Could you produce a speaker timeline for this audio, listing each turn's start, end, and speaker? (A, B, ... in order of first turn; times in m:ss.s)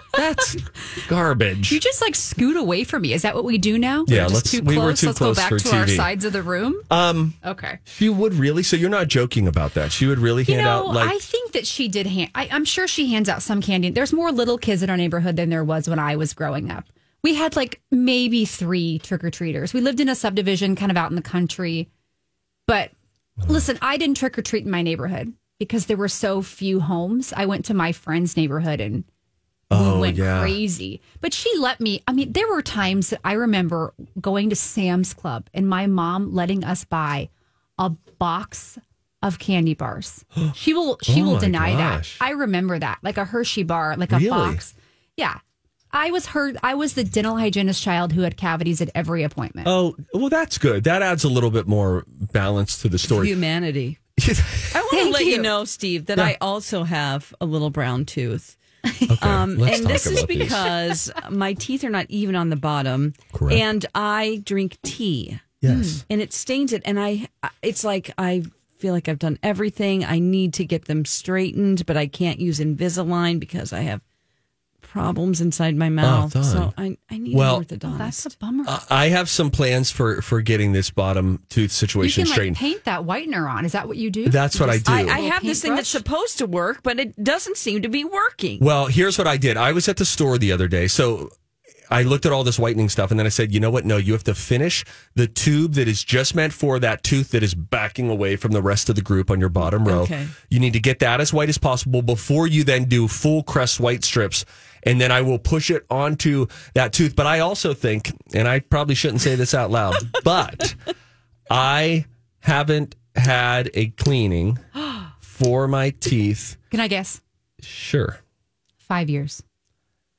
0:00.1-0:01.8 A
0:01.7-0:06.8 B
0:04.1-0:06.1 A
0:06.9-0:07.4 A
0:07.4-0:07.8 B
0:07.9-0:11.2 A
0:10.4-0:21.9 B
0:22.7-0:22.9 B
0:23.4-0:23.6 A
0:23.4-0:29.0 B
0:29.7-0:30.6 A
0:29.7-0:45.4 B
0:41.0-0:42.2 A
0:44.1-0:44.6 A
0:45.9-0:49.7 B
0:49.6-0:53.3 A
0:53.1-0:54.0 C
0:54.2-0:54.7 A
0:54.7-0:58.6 C
0:54.9-0:55.5 B
0:59.1-1:00.7 A
0:59.2-1:05.6 C
1:03.3-1:03.6 A
1:05.6-1:06.0 A
1:05.7-1:06.0 B
1:06.1-1:14.0 C
1:14.8-1:18.3 C
1:16.0-1:16.7 A
1:17.3-1:17.6 A
1:17.8-1:18.8 B
1:18.6-1:22.6 A
1:22.0-1:26.0 B
1:24.2-1:25.2 A
1:24.6-1:28.6 C
1:28.6-1:31.3 A
1:31.9-1:50.8 A
1:39.8-1:40.3 C
1:51.5-1:54.6 A
1:55.2-1:56.6 A
1:56.7-1:57.2 B
1:57.6-1:58.2 A
1:58.9-1:59.4 B